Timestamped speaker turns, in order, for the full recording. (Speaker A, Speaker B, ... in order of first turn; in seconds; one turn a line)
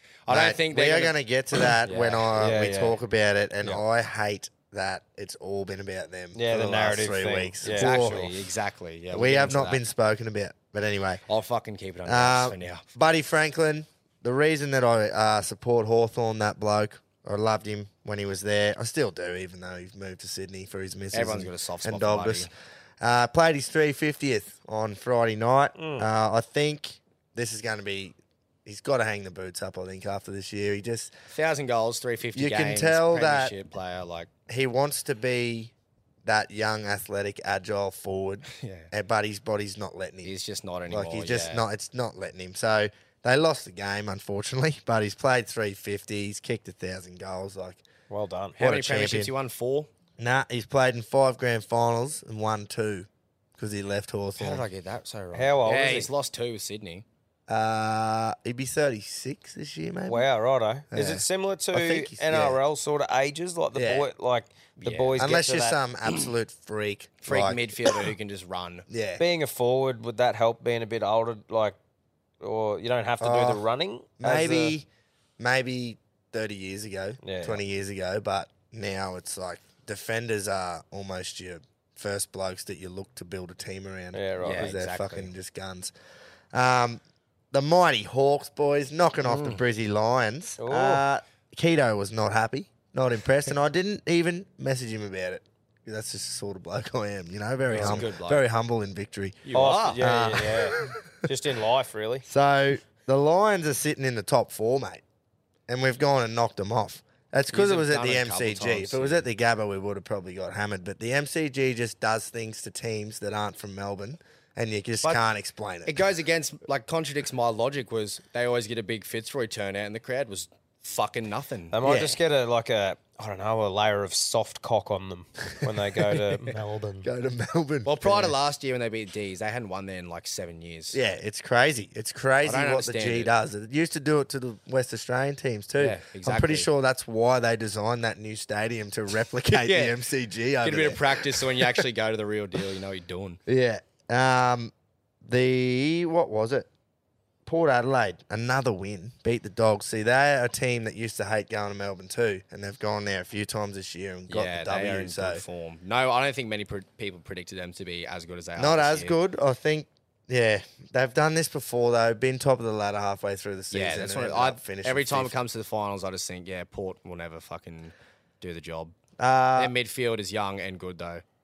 Speaker A: 0.3-3.0
Speaker B: 0.3-8.2
Speaker C: 6.3-8.3
Speaker A: 7.7-9.8
Speaker B: 9.1-11.2
Speaker A: 11.3-12.8
Speaker B: 12.1-22.5
Speaker A: 21.1-22.5
Speaker B: 23.0-31.1
Speaker C: 25.8-26.1
Speaker A: 31.3-34.3
Speaker B: 32.4-33.5
Speaker B: 34.5-35.7
Speaker B: 36.2-40.3
Speaker A: 38.5-38.9
Speaker A: 40.2-41.6
Speaker B: 40.9-47.8
Speaker C: 48.1-48.6
Speaker A: 48.6-49.9
Speaker B: 48.6-49.3
Speaker B: 50.2-54.7
Speaker A: 54.4-57.0
Speaker C: 55.3-56.1
Speaker B: 57.5-60.3
Speaker C: 60.1-65.8
Speaker B: 60.9-62.6
Speaker B: 63.8-64.1
Speaker A: 64.8-65.2
Speaker B: 65.2-68.0
Speaker A: 67.2-68.9
Speaker B: 68.9-69.2
Speaker C: 69.2-71.8
Speaker C: 72.4-74.8
Speaker B: 73.2-73.6
Speaker B: 74.2-74.9
Speaker B: 75.4-85.9
Speaker C: 77.2-77.6
Speaker C: 84.1-84.7
Speaker A: 84.4-85.3
Speaker B: 86.5-87.0
Speaker B: 87.5-99.4
Speaker A: 89.2-89.6
Speaker C: 90.6-91.0
Speaker A: 97.7-98.4
Speaker C: 97.8-98.0
Speaker A: 99.5-100.0
Speaker C: 99.5-102.2
Speaker B: 100.0-101.0
Speaker B: 102.3-105.0
Speaker B: 105.7-116.0
Speaker A: 107.5-109.3
Speaker A: 115.9-121.8
Speaker C: 121.7-127.0
Speaker B: 121.8-122.2
Speaker B: 127.0-128.3
Speaker A: 127.8-131.0
Speaker B: 130.9-141.8
Speaker A: 132.4-133.3
Speaker A: 135.8-136.7
Speaker A: 139.5-140.0
Speaker A: 140.6-143.4
Speaker B: 143.5-144.7
Speaker B: 145.2-146.7
Speaker B: 147.5-155.4
Speaker A: 154.3-159.2
Speaker B: 158.6-165.4
Speaker A: 163.7-168.9
Speaker B: 169.2-169.7
Speaker A: 169.6-171.2